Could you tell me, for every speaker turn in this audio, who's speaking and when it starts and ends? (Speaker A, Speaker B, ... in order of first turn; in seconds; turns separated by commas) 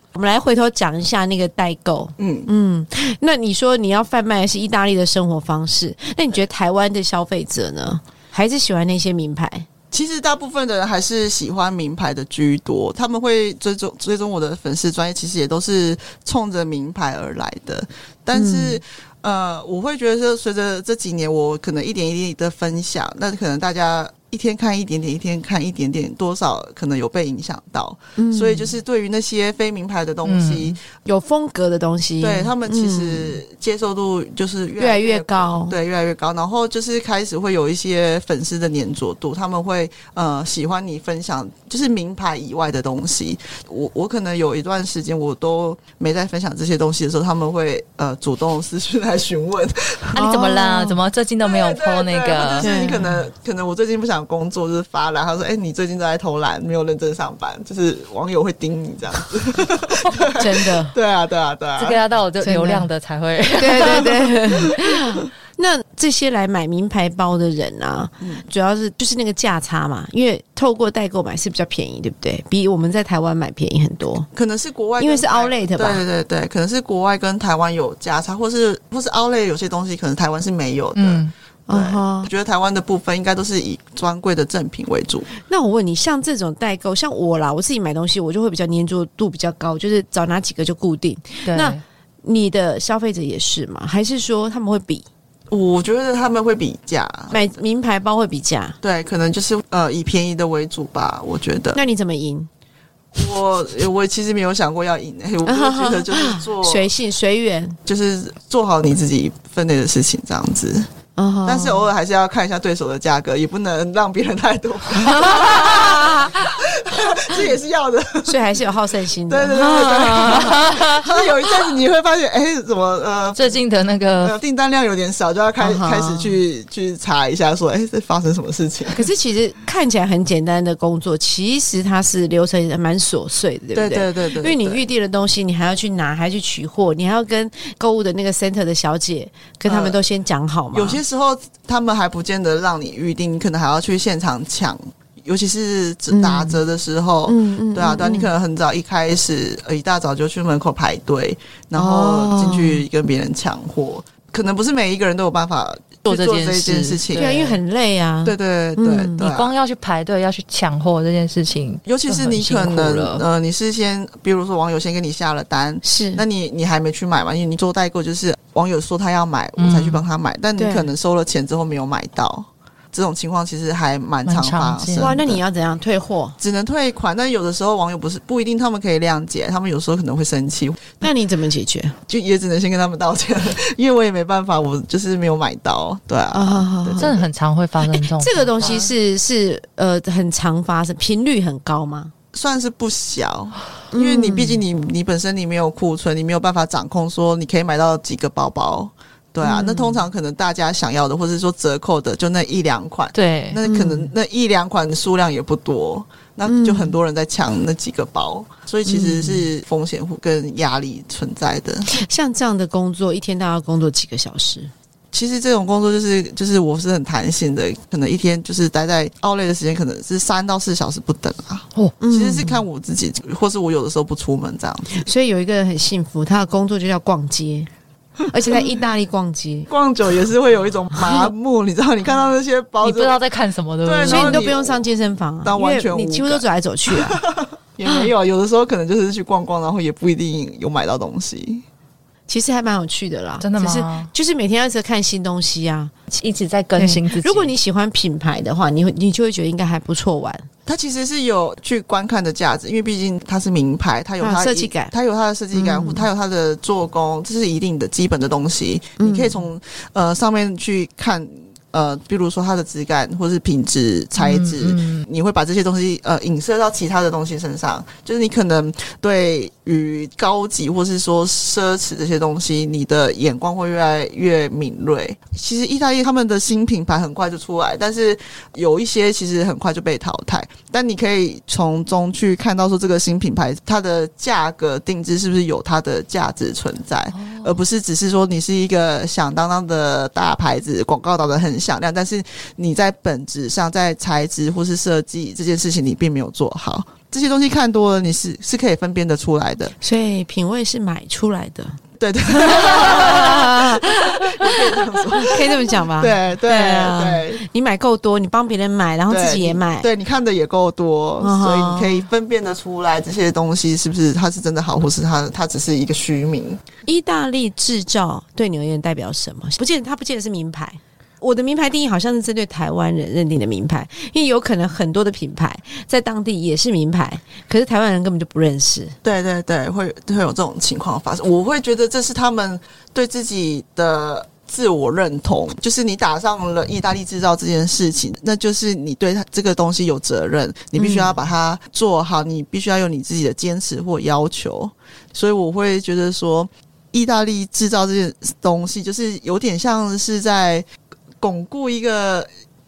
Speaker A: 0.1-9.7, Speaker B: 2.2-2.5, Speaker B: 9.9-30.8, Speaker A: 18.3-18.8, Speaker A: 28.2-28.7, Speaker C: 30.2-30.8, Speaker A: 31.0-33.4, Speaker B: 32.2-50.2, Speaker A: 34.8-35.8, Speaker C: 50.1-52.9, Speaker A: 50.2-51.0, Speaker B: 51.4-62.0, Speaker A: 52.6-53.1, Speaker A: 60.3-61.0, Speaker C: 61.8-64.3, Speaker A: 62.4-62.9, Speaker A: 63.5-74.3, Speaker B: 74.3-85.3, Speaker A: 75.0-76.0, Speaker C: 81.0-81.3, Speaker A: 81.7-82.3, Speaker A: 85.5-95.1, Speaker C: 91.5-91.8, Speaker B: 95.5-97.5, Speaker A: 97.3-98.8, Speaker B: 98.8-101.8, Speaker A: 101.8-102.5, Speaker B: 103.1-106.9, Speaker A: 105.5-107.8, Speaker B: 107.9-110.9, Speaker A: 111.2-111.9, Speaker B: 111.4-118.6, Speaker A: 114.9-116.5, Speaker A: 118.3-120.7, Speaker B: 119.3-123.6, Speaker C: 120.0-121.1, Speaker C: 123.4-124.4, Speaker B: 124.2-129.1, Speaker A: 125.6-126.4, Speaker A: 128.9-141.0, Speaker B: 133.8-134.8, Speaker B: 139.7-140.0, Speaker B: 140.7-157.3, Speaker A: 146.1-146.6, Speaker A: 147.3-148.3, Speaker A: 151.8-152.8, Speaker C: 156.1-157.6, Speaker A: 157.1-159.2, Speaker B: 158.2-159.5, Speaker C: 159.2-163.2, Speaker B: 161.9-175.4, Speaker A: 165.8-166.2, Speaker C: 169.6-170.0, Speaker A: 170.6-170.9, Speaker C: 174.3-175.1, Speaker A: 175.0-176.4, Speaker B: 176.4-181.0, Speaker A: 181.0-182.0, Speaker B: 182.1-187.3, Speaker A: 186.3-187.2, Speaker C: 187.0-188.9, Speaker A: 187.9-192.1, Speaker B: 192.3-211.9, Speaker A: 193.9-194.6, Speaker A: 199.4-200.0, Speaker C: 203.1-203.6, Speaker A: 203.6-204.1, Speaker A: 206.5-206.9, Speaker A: 208.9-209.5, Speaker A: 211.9-214.7, Speaker B: 215.1-225.1, Speaker A: 222.0-222.5, Speaker A: 224.9-227.7, Speaker A: 228.3-229.7, Speaker B: 229.7-233.2, Speaker A: 231.0-231.3, Speaker C: 232.8-234.4, Speaker B: 233.8-234.8, Speaker A: 234.1-237.2, Speaker B: 235.4-241.7, Speaker A: 242.3-245.9, Speaker C: 243.4-244.1, Speaker C: 246.1-247.5, Speaker A: 246.8-250.5, Speaker B: 250.7-299.8, Speaker A: 254.2-254.9, Speaker A: 255.5-256.1, Speaker A: 259.0-259.4, Speaker C: 264.2-265.0, Speaker C: 287.1-287.6, Speaker A: 299.8-309.9, Speaker B: 302.0-307.4, Speaker B: 309.1-316.6, Speaker A: 311.2-312.1, Speaker A: 316.9-329.0, Speaker B: 329.0-350.7, Speaker A: 340.8-341.1, Speaker B: 351.2-352.3